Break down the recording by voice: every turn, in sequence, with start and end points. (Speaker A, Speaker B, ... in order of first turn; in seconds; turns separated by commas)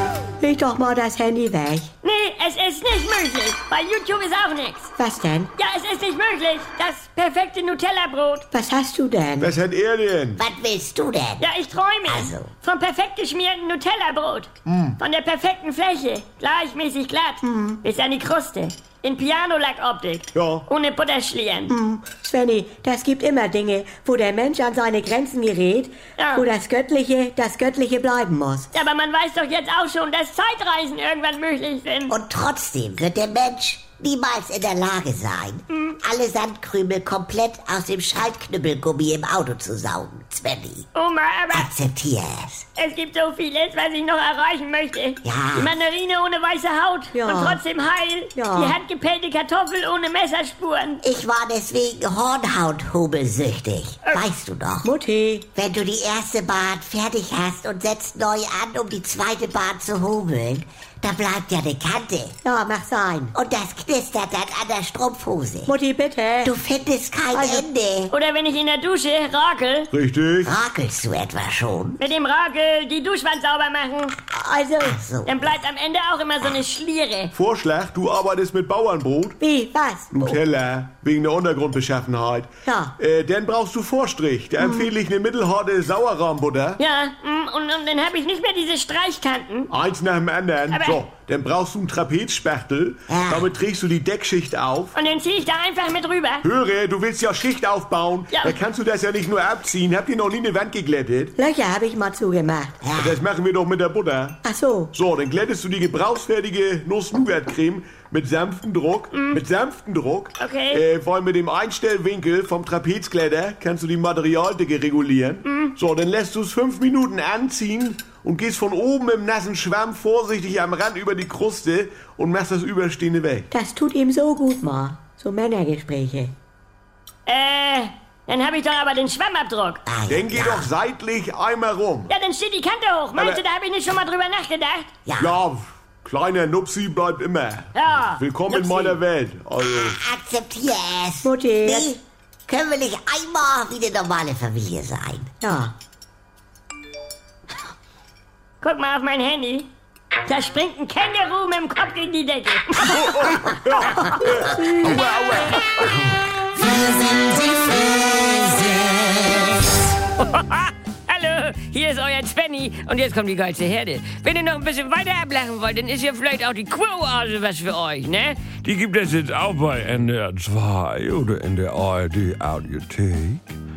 Speaker A: 0.4-1.9, Speaker B: 2.0-4.9, Speaker A: 5.0-5.5, Speaker B: 5.5-8.5, Speaker A: 8.5-9.5, Speaker C: 9.4-10.4, Speaker D: 10.4-11.5, Speaker B: 11.4-21.7, Speaker D: 12.1-12.5, Speaker C: 14.7-15.0, Speaker A: 17.4-17.8, Speaker C: 20.3-20.6, Speaker A: 21.7-28.7, Speaker B: 26.2-26.4, Speaker B: 28.7-32.1, Speaker D: 32.1-40.9, Speaker B: 35.7-36.0, Speaker B: 40.9-41.7, Speaker D: 41.5-42.6, Speaker B: 42.8-51.0, Speaker D: 45.2-45.7, Speaker A: 47.1-47.6, Speaker A: 48.4-48.8, Speaker D: 51.0-54.9, Speaker A: 54.8-55.5, Speaker D: 55.5-62.4, Speaker A: 62.4-63.3, Speaker D: 63.3-65.7, Speaker A: 65.7-66.5, Speaker D: 66.4-68.1, Speaker A: 67.3-67.7, Speaker B: 68.1-69.9, Speaker C: 69.9-70.5, Speaker D: 70.4-72.0, Speaker B: 72.0-74.1, Speaker A: 74.3-75.0, Speaker D: 74.8-75.5, Speaker B: 75.2-77.3, Speaker C: 77.3-79.4, Speaker A: 79.4-80.4, Speaker C: 80.1-86.8, Speaker A: 82.6-82.9, Speaker A: 84.6-84.9, Speaker B: 86.8-89.7, Speaker C: 89.7-95.0, Speaker B: 90.7-91.0, Speaker D: 93.1-93.5, Speaker B: 94.9-96.4, Speaker C: 96.4-101.3, Speaker A: 101.4-102.8, Speaker D: 102.8-103.2, Speaker C: 102.9-104.4, Speaker A: 104.4-104.9, Speaker C: 104.9-123.5, Speaker B: 109.1-109.4, Speaker B: 110.4-110.8, Speaker B: 115.4-115.7, Speaker A: 123.5-126.3, Speaker B: 127.2-129.8, Speaker D: 129.8-130.7, Speaker C: 130.1-132.1, Speaker B: 132.1-134.9, Speaker C: 133.2-133.4, Speaker D: 135.1-135.3, Speaker C: 135.2-140.0, Speaker B: 137.7-139.0, Speaker D: 139.6-145.3, Speaker A: 141.2-141.9, Speaker A: 145.4-145.7, Speaker B: 148.6-149.7, Speaker B: 150.3-153.5, Speaker C: 152.9-155.7, Speaker A: 154.6-154.9, Speaker E: 156.7-159.0, Speaker E: 160.2-168.6, Speaker F: 168.6-173.6